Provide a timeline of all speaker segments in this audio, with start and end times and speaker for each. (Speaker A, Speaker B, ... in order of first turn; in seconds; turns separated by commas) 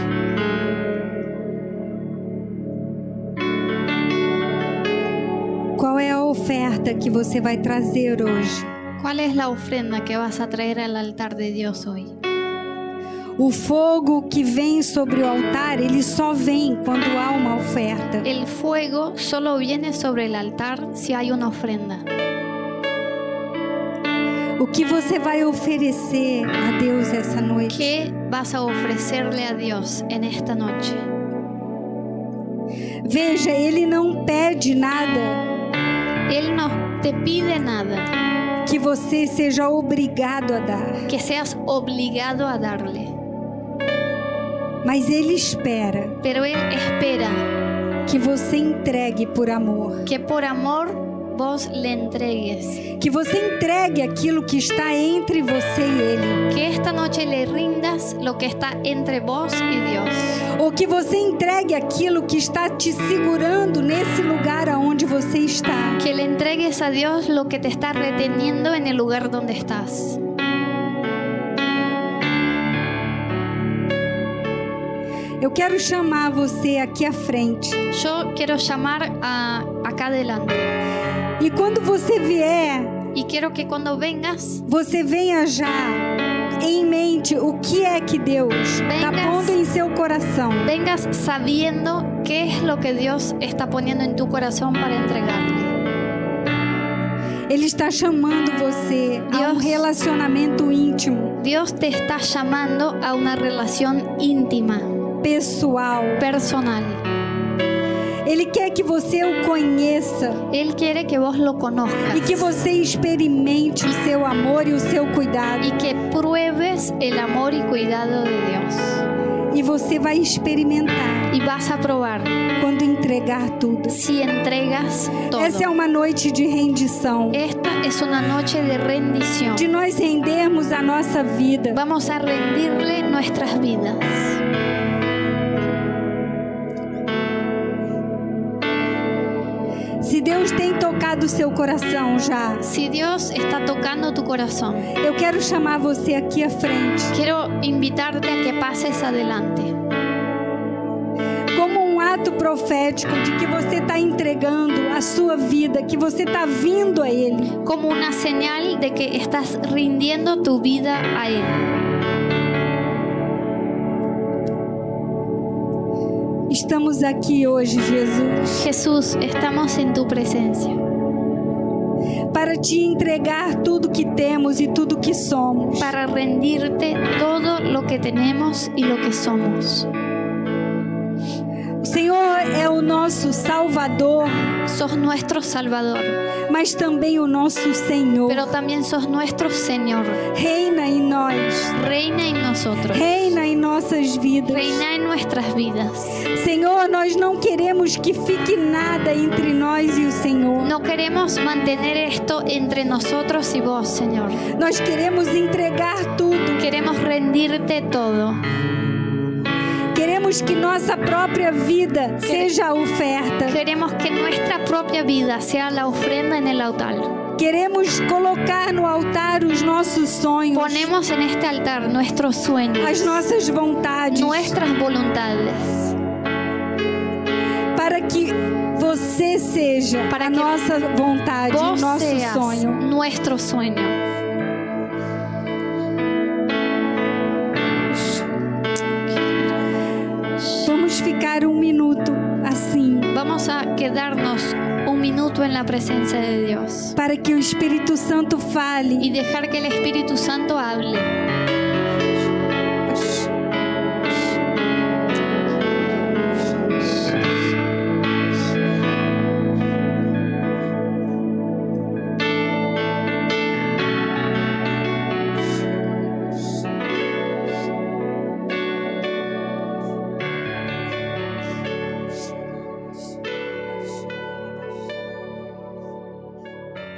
Speaker A: 5.8-8.7, Speaker B: 9.0-12.2, Speaker A: 13.4-18.2, Speaker B: 18.2-22.1, Speaker A: 24.6-27.9, Speaker B: 27.7-31.1, Speaker A: 33.0-35.5, Speaker B: 36.3-38.1, Speaker A: 38.6-41.1, Speaker B: 41.1-43.1, Speaker A: 44.8-46.2, Speaker B: 46.2-47.5, Speaker A: 48.1-50.0, Speaker B: 50.0-52.9, Speaker A: 53.0-56.4, Speaker B: 56.5-60.4, Speaker A: 60.5-66.0, Speaker B: 66.0-70.2, Speaker A: 75.4-77.8, Speaker B: 77.9-80.7, Speaker A: 81.4-83.0, Speaker B: 83.2-84.7, Speaker A: 84.7-86.1, Speaker A: 86.6-90.7, Speaker B: 88.8-89.6, Speaker B: 90.6-95.7, Speaker A: 97.5-101.4, Speaker B: 99.3-99.8, Speaker B: 101.4-104.9, Speaker A: 105.2-106.3, Speaker B: 106.2-107.0, Speaker A: 108.2-110.5, Speaker B: 110.5-112.5, Speaker A: 112.1-115.8, Speaker B: 115.6-119.0, Speaker A: 119.5-121.3, Speaker B: 121.3-122.4, Speaker A: 122.6-124.0, Speaker B: 123.9-125.7, Speaker A: 125.3-127.4, Speaker B: 127.3-129.7, Speaker A: 129.5-131.8, Speaker B: 131.7-134.4, Speaker A: 140.0-142.6, Speaker B: 142.6-144.9, Speaker A: 145.0-147.1, Speaker B: 147.1-149.7, Speaker A: 151.6-157.6, Speaker B: 157.6-161.6, Speaker A: 166.5-168.6, Speaker B: 168.5-170.8, Speaker A: 172.3-175.9, Speaker B: 175.8-179.9, Speaker A: 181.8-184.4, Speaker B: 184.7-186.2, Speaker A: 186.5-188.5, Speaker B: 188.3-190.2, Speaker A: 190.3-191.8, Speaker B: 191.7-193.1, Speaker A: 192.9-194.8, Speaker B: 194.5-196.2, Speaker A: 196.2-200.7, Speaker B: 200.6-204.5, Speaker A: 204.5-206.6, Speaker B: 206.6-208.4, Speaker A: 209.9-213.6, Speaker B: 212.2-212.5, Speaker B: 213.5-217.2, Speaker A: 217.4-220.9, Speaker B: 220.5-223.2, Speaker A: 222.8-224.6, Speaker B: 224.1-226.0, Speaker A: 227.8-232.8, Speaker B: 230.1-230.6, Speaker B: 231.5-234.0, Speaker B: 239.1-239.6, Speaker B: 240.4-240.7, Speaker A: 240.6-243.1, Speaker B: 243.1-247.0, Speaker A: 247.0-249.2, Speaker B: 249.0-251.1, Speaker A: 252.9-253.3, Speaker A: 273.7-274.9